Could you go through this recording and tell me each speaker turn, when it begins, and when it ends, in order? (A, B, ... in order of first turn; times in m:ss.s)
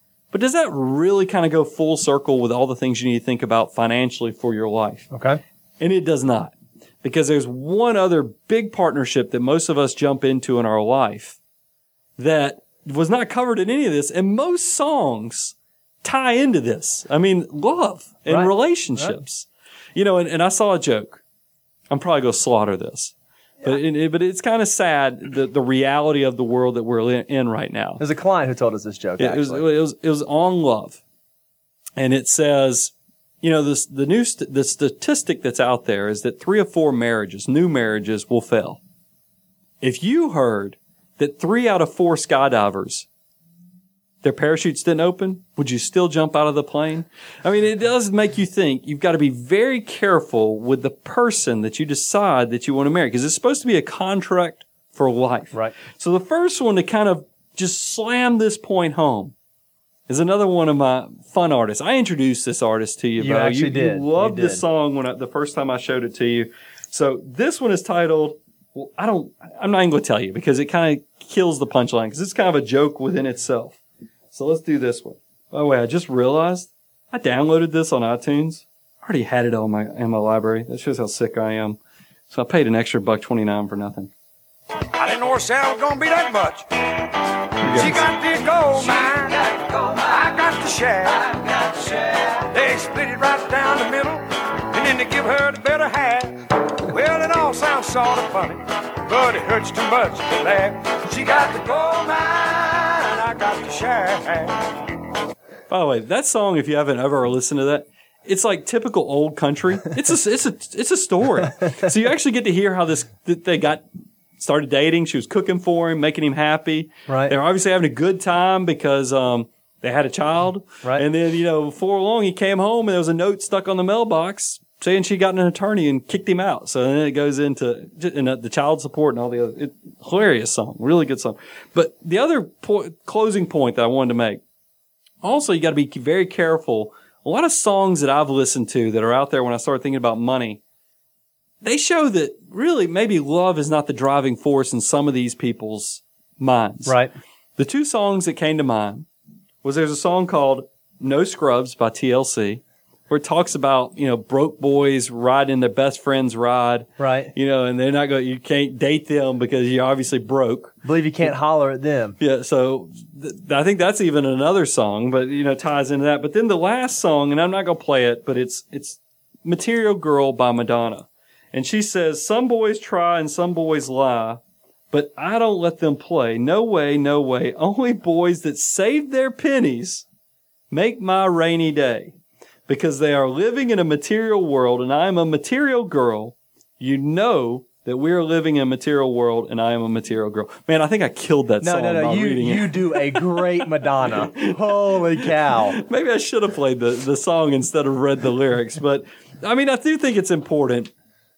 0:00.3-0:05.1 A
0:05.1-0:05.4 B
0:05.8-0:11.4 A
0:12.2-0:21.2 A
0:18.3-0:19.2 B
0:21.9-0:28.0 A
0:28.0-0:29.6 B
0:29.2-0:31.0 A
0:32.0-0:38.8 A
0:39.8-0:43.0 A
0:44.2-0:59.3 A
1:00.1-1:13.8 A
1:03.2-1:04.6 B
1:14.3-1:21.8 A
1:22.3-1:24.1 A
1:25.0-1:26.6 C
1:27.6-1:28.1 A
1:27.8-1:29.4 C
1:30.2-1:31.2 C
1:32.5-1:34.2 C
1:34.7-1:36.3 C
1:36.9-1:44.6 C
1:45.7-1:53.8 A
1:54.4-2:14.4 A
1:57.1-1:57.3 B
2:15.2-2:20.6 A
2:21.6-2:27.0 A
2:26.8-2:27.1 B
2:27.6-2:29.0 A
2:29.6-2:40.8 A
2:37.0-2:37.3 B
2:40.8-2:42.2 B
2:42.2-2:54.4 A
2:54.9-3:00.0 A
3:00.7-3:02.2 A
3:02.7-3:20.9 A
3:11.6-3:15.8 B